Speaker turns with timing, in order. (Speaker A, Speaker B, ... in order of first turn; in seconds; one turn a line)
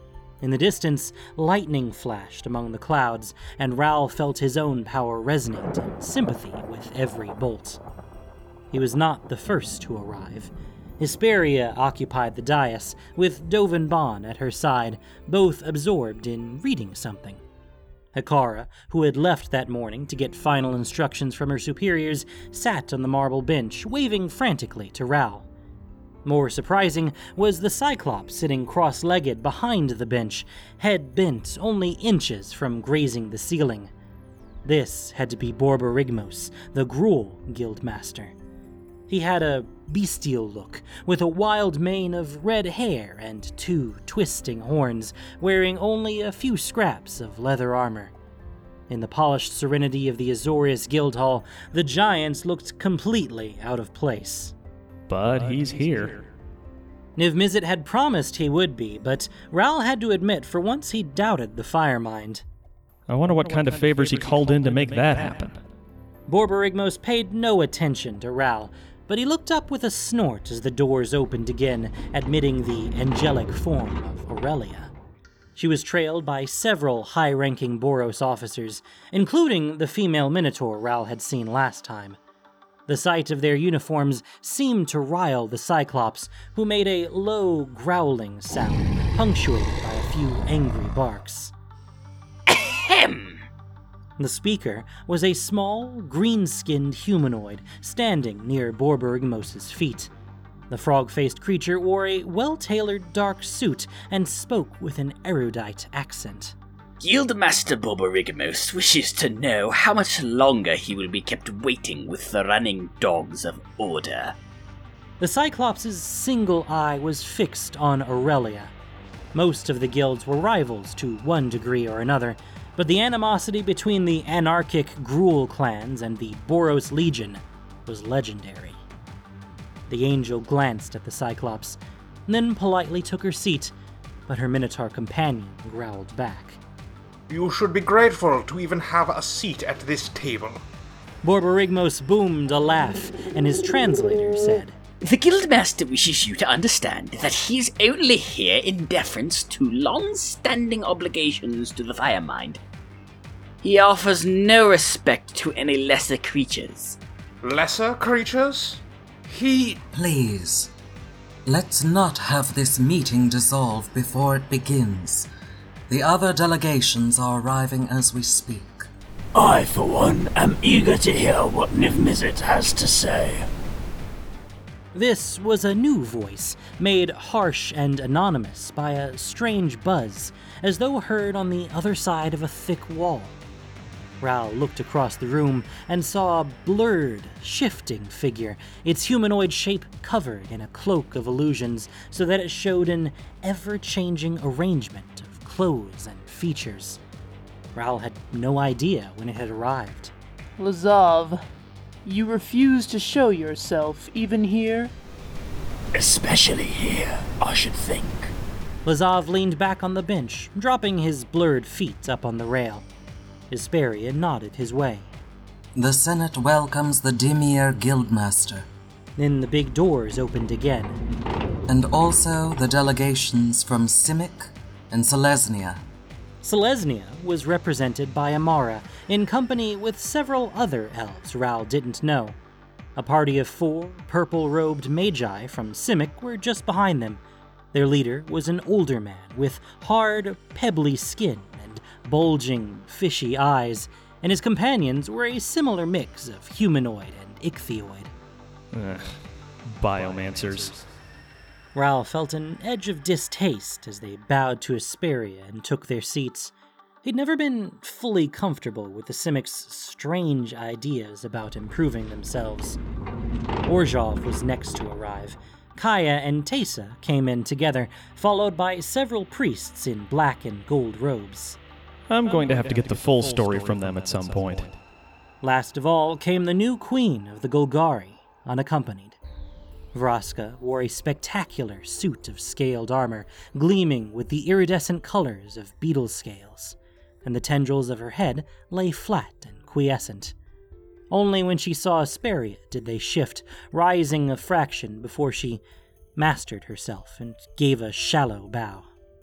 Speaker A: 0.4-7.8
Speaker A: 8.7-17.4
Speaker A: 18.1-25.4
Speaker A: 26.2-33.9
Speaker A: 34.6-38.3
Speaker A: 39.1-48.1
Speaker A: 48.9-54.5
Speaker B: 55.1-56.2
Speaker A: 57.2-62.4
Speaker B: 63.1-65.6
Speaker A: 66.3-74.9
Speaker A: 75.5-82.2
Speaker A: 82.9-91.5
Speaker C: 92.5-93.4
Speaker A: 94.2-100.1
Speaker A: 100.7-106.5
Speaker C: 107.0-114.3
Speaker A: 115.2-118.7
Speaker A: 119.3-128.8
Speaker A: 129.9-133.7
Speaker A: 134.3-136.6
Speaker D: 137.3-140.6
Speaker A: 141.2-144.7
Speaker C: 145.0-152.6
Speaker C: 153.6-157.0
Speaker D: 157.4-159.8
Speaker E: 159.9-160.7
Speaker E: 161.4-165.3
Speaker E: 165.9-168.8
Speaker F: 169.3-173.5
Speaker A: 174.9-183.4
Speaker A: 184.2-197.0
Speaker A: 197.7-200.1
Speaker G: 200.6-201.4
Speaker G: 202.0-204.9
Speaker F: 205.9-208.3
Speaker A: 208.8-212.8
Speaker A: 213.5-215.1
Speaker E: 215.7-218.7
Speaker A: 219.2-221.0
Speaker E: 221.7-225.8
Speaker A: 226.4-232.4
Speaker A: 232.9-237.2
Speaker A: 237.7-248.1
Speaker B: 248.7-250.8
Speaker A: 251.7-256.5
Speaker A: 257.0-262.8
Speaker A: 263.6-271.6
Speaker B: 272.1-274.7
Speaker A: 275.4-279.2
Speaker A: 279.9-290.3
Speaker A: 291.1-295.6
Speaker A: 296.1-298.9